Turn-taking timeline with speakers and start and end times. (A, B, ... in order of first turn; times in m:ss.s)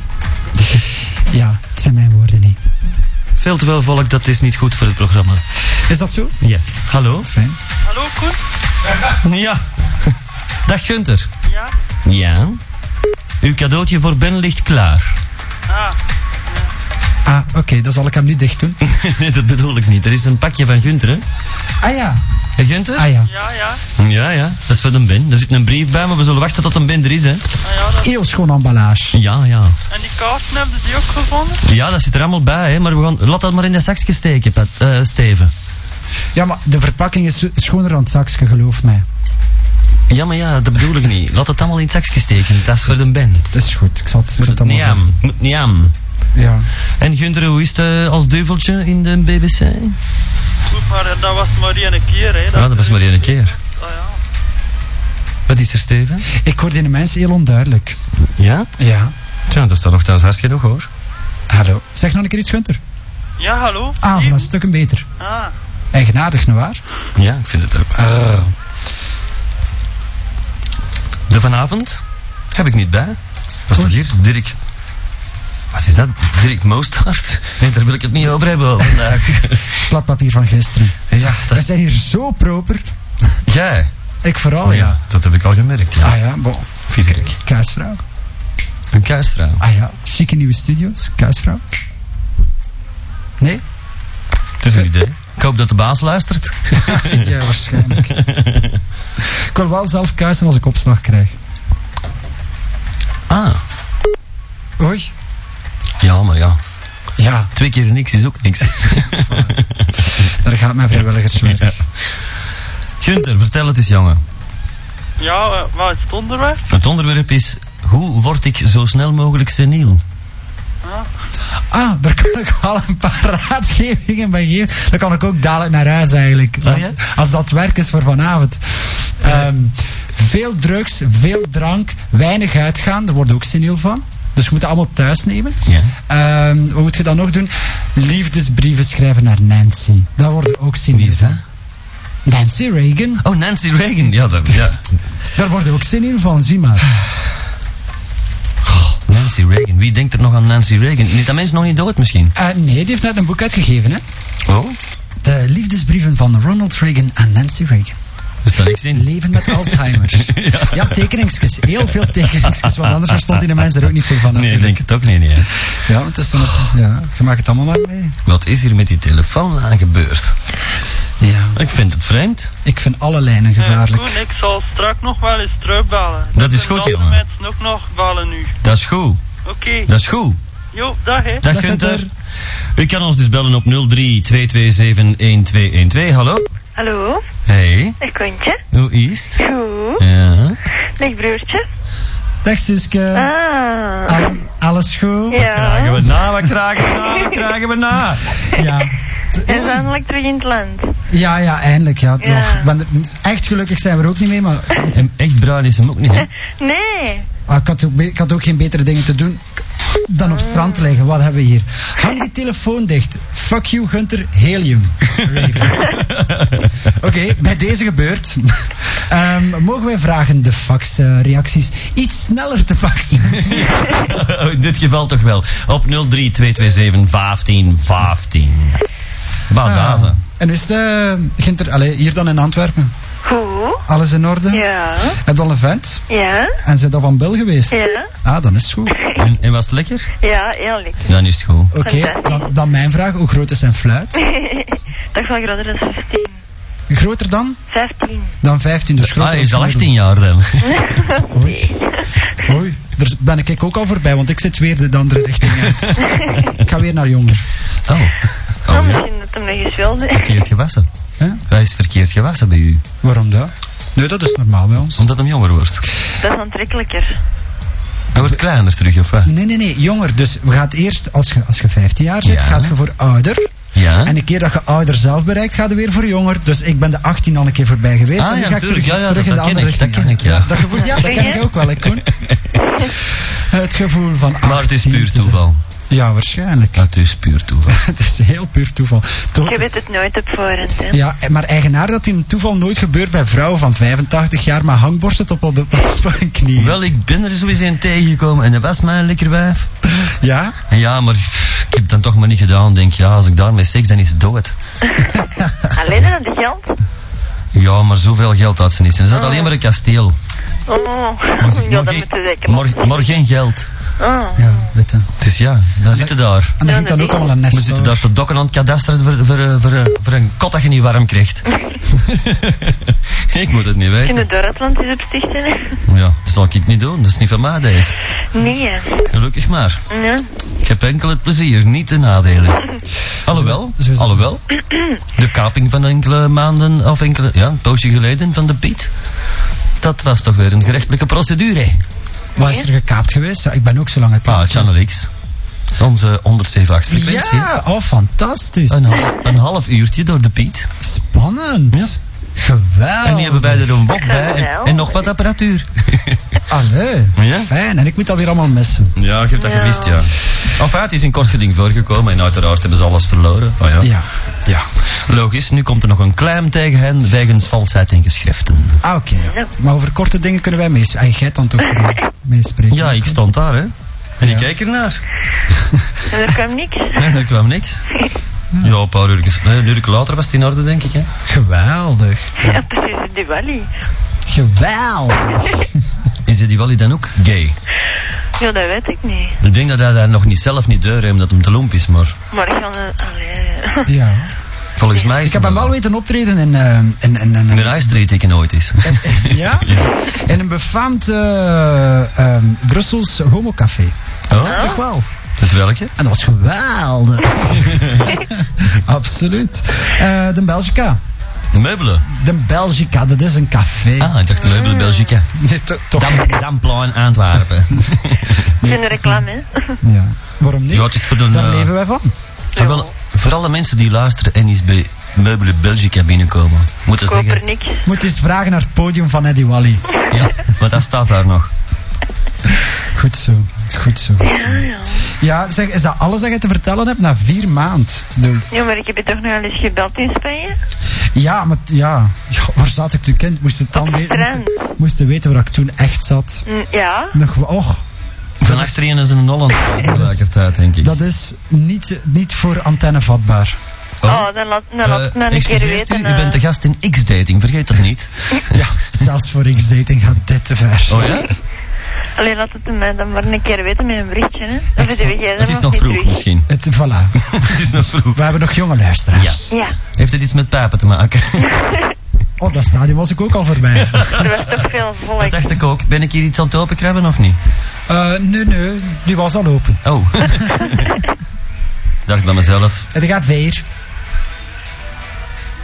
0:00.6-0:02.6 A
0:03.4-0:05.4 B
0:05.9-0:06.4 A
0:06.4-0:07.3 B
0:07.2-0:07.6 A
0:07.9-0:08.4 C
0:09.0-0:09.6 B
0:10.7-0:11.3 B
0:11.5-0:11.7 C
0:12.0-0:12.6 B
0:13.4-0:15.2 B
0:15.7-0:16.0 C
0:17.2-0:18.8 A
0:18.8-0:21.2 B
0:21.8-0:22.2 A
0:22.6-0:23.1 B
0:23.0-0:23.3 A
0:23.2-0:23.8 C
0:24.0-0:27.4 B
0:27.6-0:28.1 C
0:28.0-0:29.2 A
0:29.1-0:29.8 B
0:29.9-0:31.6 C
0:31.6-0:35.5 B
0:36.4-0:39.1 A
0:40.1-0:43.5 B
0:43.5-0:45.1 A
0:44.4-0:45.9 B
0:46.4-0:46.7 A
0:47.0-0:50.0 B
0:50.7-0:54.2 C
0:52.5-0:53.6 B
0:55.5-0:56.3 B
0:56.3-0:58.0 A
0:58.4-0:58.7 B
0:58.8-0:59.1 A
0:59.5-1:00.9 B
1:01.5-1:02.8 A
1:03.4-1:04.5 C
1:04.0-1:05.0 A
1:05.2-1:05.5 C
1:05.9-1:06.8 A
1:07.2-1:08.0 B
1:08.0-1:08.5 A
1:11.3-1:14.6 B
1:13.8-1:14.0 A
1:15.7-1:19.8 B
1:19.7-1:22.9 A
1:21.1-1:21.7 B
1:23.4-1:23.9 B
1:24.2-1:25.0 A
1:24.6-1:26.2 B
1:26.0-1:28.0 A
1:26.9-1:27.4 B
1:28.9-1:29.6 B
1:29.6-1:31.6 A
1:34.6-1:37.3 B
1:36.8-1:38.3 A
1:38.0-1:38.8 B
1:39.2-1:41.4 A
1:43.3-1:43.6 B
1:44.8-1:45.1 A
1:46.0-1:46.6 B
1:47.2-1:47.5 A
1:47.6-1:50.3 B
1:49.1-1:49.5 A
1:50.2-1:51.8 A
1:51.4-1:52.1 B
1:53.0-1:54.2 B
1:55.2-1:56.6 C
1:56.7-2:00.0 B
2:01.7-2:21.4 A
2:06.6-2:07.0 B
2:15.7-2:15.9 B
2:20.9-2:21.4 B
2:22.2-2:23.2 A
2:23.2-2:24.8 B
2:25.4-2:26.9 A
2:28.7-2:32.3 B
2:32.4-2:34.0 A
2:34.5-2:34.8 B
2:35.2-2:38.0 A
2:38.4-2:41.1 B
2:38.8-2:44.8 A
2:41.7-2:45.6 B
2:45.7-2:48.2 A
2:46.4-2:46.7 B
2:48.3-2:50.4 B
2:51.2-2:51.6 A
2:51.5-2:52.5 B
2:52.6-2:54.2 A
2:53.6-2:58.6 C
2:56.4-2:57.2 B
2:58.6-2:59.2 B
2:59.4-2:59.9 C
2:59.9-3:00.4 B
3:00.7-3:01.4 C
3:01.4-3:02.1 B
3:01.4-3:02.1 A
3:02.8-3:06.5 B
3:06.8-3:07.2 D
3:07.5-3:08.0 B
3:08.0-3:08.6 D
3:08.7-3:09.4 B
3:09.4-3:10.0 D
3:10.0-3:10.6 B
3:11.0-3:11.7 D
3:12.4-3:13.3 A
3:13.1-3:14.3 D
3:14.0-3:15.5 A
3:15.3-3:16.1 D
3:15.4-3:18.4 B
3:17.0-3:17.4 D
3:18.5-3:19.9 A
3:19.5-3:21.0 D
3:21.1-3:24.9 A
3:22.2-3:22.7 D
3:24.9-3:26.3 B
3:26.4-3:27.3 D
3:27.5-3:36.0 A
3:30.2-3:30.9 D
3:35.8-3:36.9 B
3:36.9-3:43.7 A
3:43.4-3:48.8 B
3:49.5-3:50.2 B
3:49.6-3:52.9 A
3:53.2-3:53.8 D
3:53.9-3:56.0 A
3:54.5-3:55.2 D
3:56.1-3:56.6 D
3:56.6-3:59.0 A
3:57.7-3:58.1 D
3:58.9-3:59.2 D
3:59.2-4:00.1 B
4:00.2-4:01.1 D
4:01.1-4:01.7 B
4:01.7-4:04.2 A
4:01.8-4:02.5 D
4:04.2-4:06.4 D
4:06.9-4:07.6 A
4:07.7-4:08.4 D
4:08.4-4:09.9 A
4:09.0-4:11.0 B
4:10.6-4:12.3 D
4:11.3-4:11.8 A
4:12.4-4:17.5 A
4:16.0-4:16.5 D
4:17.9-4:19.1 B
4:18.7-4:20.4 D
4:20.1-4:20.9 B
4:21.5-4:22.8 B
4:23.0-4:25.0 A
4:25.0-4:25.9 B
4:26.2-4:27.2 D
4:28.1-4:29.3 B
4:29.2-4:33.5 A
4:32.2-4:32.8 B
4:33.7-4:34.2 B
4:34.0-4:42.1 A
4:38.2-4:42.6 B
4:40.9-4:41.4 D
4:43.1-4:45.4 A
4:44.4-4:45.6 B
4:45.9-4:46.8 A
4:46.8-4:47.8 B
4:47.7-4:49.7 A
4:49.4-4:51.0 D
4:50.9-4:56.8 A
4:56.6-4:59.7 B
5:00.0-5:00.6 A
5:00.7-5:04.5 B
5:04.9-5:05.2 D
5:05.2-5:05.7 A
5:05.7-5:06.8 D
5:07.5-5:10.2 B
5:09.1-5:09.5 D
5:10.7-5:13.1 D
5:11.4-5:13.7 B
5:14.0-5:14.6 D
5:14.4-5:15.1 A
5:15.2-5:16.6 B
5:15.9-5:18.0 A
5:16.6-5:17.2 D
5:17.5-5:24.3 B
5:24.0-5:25.8 D
5:25.9-5:28.0 B
5:28.3-5:29.1 D
5:29.1-5:29.8 B
5:29.9-5:30.3 D
5:30.6-5:32.6 B
5:33.2-5:34.4 B
5:33.3-5:34.2 A
5:35.2-5:38.9 B
5:39.8-5:41.8 B
5:42.4-5:42.7 D
5:42.4-5:44.7 A
5:44.3-5:45.1 B
5:45.8-5:47.5 B
5:46.9-5:49.0 A
5:48.7-5:50.7 B
5:50.8-5:53.8 A
5:53.0-5:56.4 B
5:53.9-5:55.1 D
5:56.5-5:58.9 A
5:57.2-5:57.5 B
5:59.0-6:03.9 B
5:59.4-6:00.1 D
6:03.8-6:04.7 A
6:05.0-6:08.8 B
6:08.8-6:13.2 A
6:12.7-6:15.0 B
6:16.1-6:17.2 D
6:17.0-6:17.8 B
6:18.6-6:21.1 B
6:21.2-6:22.6 A
6:22.4-6:23.7 D
6:24.3-6:25.8 A
6:26.3-6:27.6 B
6:28.4-6:29.4 D
6:29.4-6:32.2 B
6:32.3-6:33.9 D
6:33.9-6:34.3 A
6:34.8-6:35.7 B
6:35.2-6:38.0 A
6:37.5-6:39.9 B
6:38.8-6:45.1 A
6:44.3-6:44.8 B
6:44.4-6:44.8 D
6:45.4-6:45.9 B
6:46.0-6:51.0 A
6:47.5-6:48.1 B
6:51.5-6:52.1 B
6:52.1-6:54.2 A
6:54.0-6:55.3 B
6:54.4-6:55.1 D
6:55.4-6:56.4 A
6:56.0-6:58.5 B
6:58.6-6:59.3 A
6:58.6-6:59.8 D
6:59.8-7:02.1 A
7:00.7-7:01.7 B
7:02.6-7:07.4 B
7:02.6-7:02.9 D
7:07.1-7:07.8 D
7:07.8-7:09.9 A
7:10.1-7:11.5 B
7:12.9-7:18.5 A
7:14.2-7:15.1 D
7:18.5-7:20.6 D
7:21.1-7:26.4 A
7:23.8-7:24.7 D
7:26.5-7:27.2 D
7:27.1-7:27.8 A
7:28.4-7:28.8 A
7:28.4-7:31.0 B
7:29.8-7:30.3 A
7:30.8-7:33.6 A
7:34.0-7:34.3 B
7:34.1-7:36.4 D
7:34.8-7:39.0 B
7:38.5-7:41.3 A
7:40.9-7:41.3 B
7:42.2-7:46.2 D
7:44.8-7:46.5 B
7:46.5-7:49.5 A
7:47.2-7:48.2 B
7:49.2-7:49.4 B
7:49.5-7:49.8 D
7:50.0-7:51.6 B
7:51.5-7:51.9 D
7:52.4-7:54.1 A
7:53.9-7:54.5 B
7:54.1-7:55.5 D
7:55.2-7:57.4 B
7:57.9-7:59.8 A
7:59.8-8:01.0 B
8:02.1-8:02.9 B
8:02.9-8:03.6 A